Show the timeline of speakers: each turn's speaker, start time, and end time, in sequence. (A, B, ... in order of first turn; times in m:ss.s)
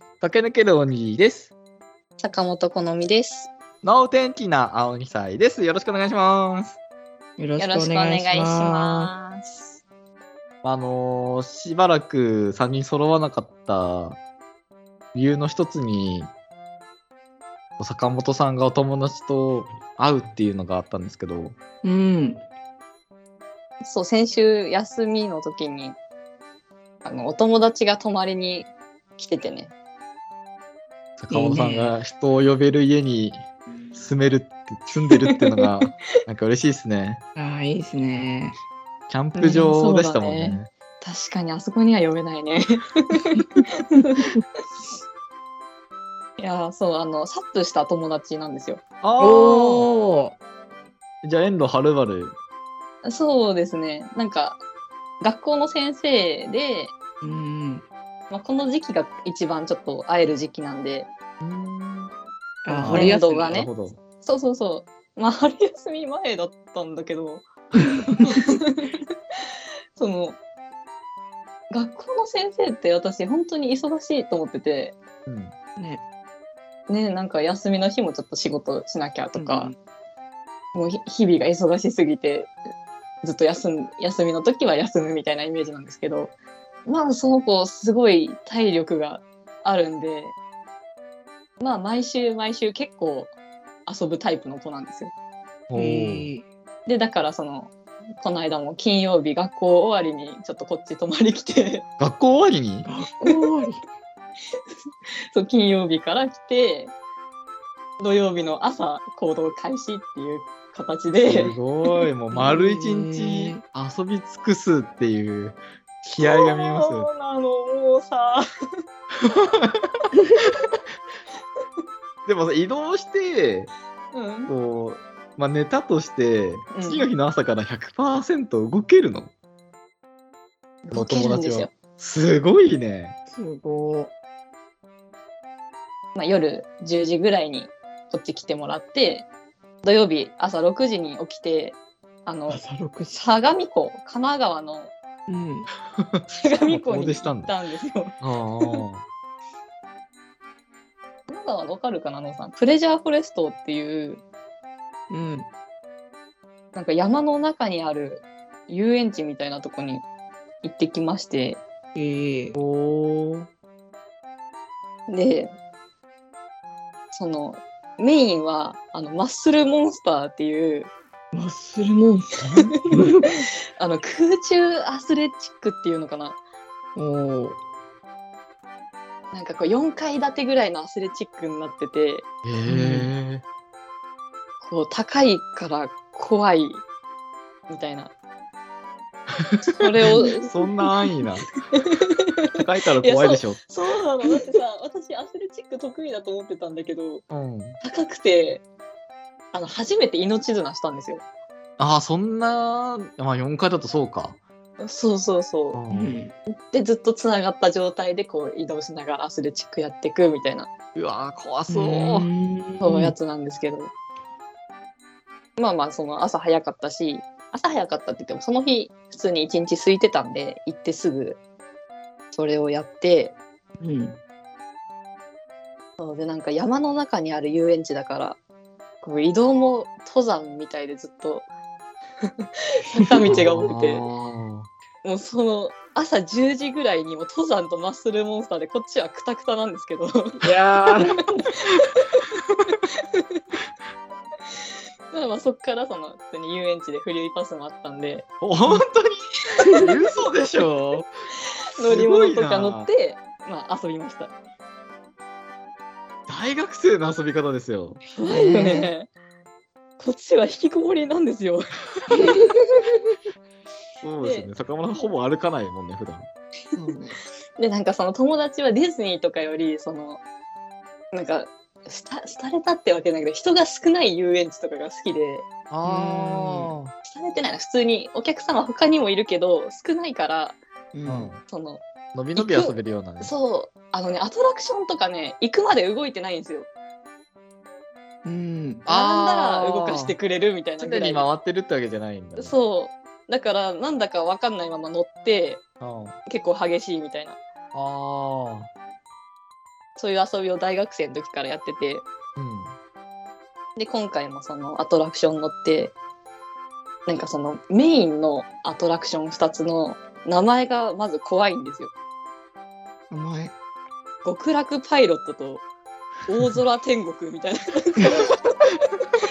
0:00.2-0:01.5 A
0:02.2-0:03.5 B
0:03.8-0:06.8 A
0:07.4-0:09.1 C
0:07.6-0:09.8 B
0:10.6-0:14.2 A
0:15.1-0:16.3 A
0:17.8-0:21.6 A
0:21.8-0:22.4 C
0:23.8-0:26.0 B
0:27.0-0:29.7 B
0:31.2-0:37.2 A
0:31.3-0:31.9 C
0:35.1-0:35.6 B
0:37.4-0:38.6 C
0:39.1-0:40.7 A
0:39.4-0:44.3 B
0:43.4-0:43.6 C
0:44.2-0:44.4 C
0:46.4-0:48.8 B
0:49.0-0:49.9 A
0:49.2-0:50.4 C
0:51.2-0:52.4 A
0:53.0-0:54.6 B
0:55.2-0:56.9 B
0:57.2-0:57.8 C
0:58.3-1:01.1 B
1:01.4-1:02.1 A
1:02.6-1:03.5 C
1:02.7-1:04.0 A
1:02.8-1:03.7 B
1:04.2-1:07.4 B
1:07.8-1:08.5 C
1:08.2-1:08.9 B
1:10.0-1:10.4 B
1:11.7-1:15.0 B
1:15.2-1:15.5 A
1:15.8-1:16.0 C
1:16.9-1:19.7 B
1:19.4-1:19.8 C
1:20.7-1:22.5 B
1:23.2-1:26.3 B
1:26.8-1:30.3 B
1:31.6-1:33.3 B
1:33.8-1:35.1 B
1:35.7-1:36.3 A
1:35.7-1:36.4 C
1:36.9-1:41.8 B
1:42.0-1:42.9 A
1:42.8-1:43.8 C
1:45.3-1:46.9 B
1:48.0-1:52.1 B
1:51.2-1:57.1 A
1:52.3-1:53.6 C
1:56.2-1:58.4 B
1:59.2-2:00.5 A
2:02.2-2:03.7 A
2:04.1-2:04.5 B
2:04.5-2:09.3 A
2:06.7-2:07.0 B
2:10.8-2:11.7 B
2:10.9-2:13.2 A
2:13.3-2:14.1 C
2:16.2-2:19.2 B
2:19.8-2:24.9 B
2:22.5-2:23.2 C
2:25.3-2:25.7 C
2:26.0-2:27.5 A
2:26.3-2:28.8 B
2:28.2-2:29.0 A
2:31.3-2:34.2 B
2:35.1-2:35.5 C
2:36.7-2:40.0 B
2:40.6-2:41.6 B
2:41.9-2:42.6 C
2:42.5-2:43.5 A
2:45.1-2:45.5 B
2:47.1-2:50.9 B
2:51.3-2:53.5 C
2:53.8-2:56.4 B
2:57.0-2:57.6 C
2:59.3-3:02.2 B
3:02.4-3:03.4 A
3:02.7-3:03.1 C
3:04.6-3:06.8 B
3:07.7-3:08.1 B
3:09.4-3:11.5 A
3:09.7-3:17.2 B
3:12.5-3:13.6 A
3:17.3-3:17.8 A
3:17.8-3:18.6 B
3:19.5-3:21.2 B
3:21.8-3:24.4 A
3:24.8-3:25.8 B
3:25.7-3:26.2 A
3:25.9-3:26.3 C
3:26.7-3:30.7 B
3:30.9-3:32.3 A
3:31.7-3:33.1 C
3:32.8-3:33.9 B
3:35.6-3:41.4 B
3:42.3-3:43.4 B
3:43.8-3:44.2 C
3:46.0-3:48.4 B
3:49.0-3:51.5 B
3:52.2-3:54.0 B
3:53.2-3:54.7 A
3:55.0-4:00.4 B
4:00.4-4:01.5 C
4:01.6-4:02.2 B
4:02.9-4:03.4 B
4:05.1-4:08.2 B
4:08.4-4:11.1 A
4:09.6-4:09.9 B
4:11.7-4:14.3 B
4:11.8-4:12.9 A
4:16.3-4:18.7 A
4:18.2-4:19.1 B
4:18.5-4:18.9 C
4:20.0-4:22.9 B
4:22.1-4:22.5 C
4:24.0-4:26.3 A
4:24.2-4:24.5 B
4:26.7-4:27.2 C
4:27.6-4:30.2 B
4:31.1-4:35.4 B
4:35.7-4:36.9 A
4:35.8-4:36.7 C
4:37.0-4:40.6 B
4:40.9-4:41.3 C
4:41.0-4:41.4 A
4:41.4-4:41.8 B
4:42.1-4:43.3 A
4:42.4-4:46.7 B
4:48.2-4:48.8 C
4:48.8-4:50.1 A
4:48.9-4:51.3 B
4:50.8-4:52.5 A
4:52.4-4:55.6 B
4:55.8-4:56.2 A
4:56.3-4:57.4 B
4:57.7-4:58.7 A
5:00.0-5:02.0 B
5:02.4-5:02.8 A
5:03.8-5:05.9 B
5:07.0-5:11.9 B
5:13.1-5:13.5 C
5:14.2-5:15.6 B
5:16.2-5:18.6 B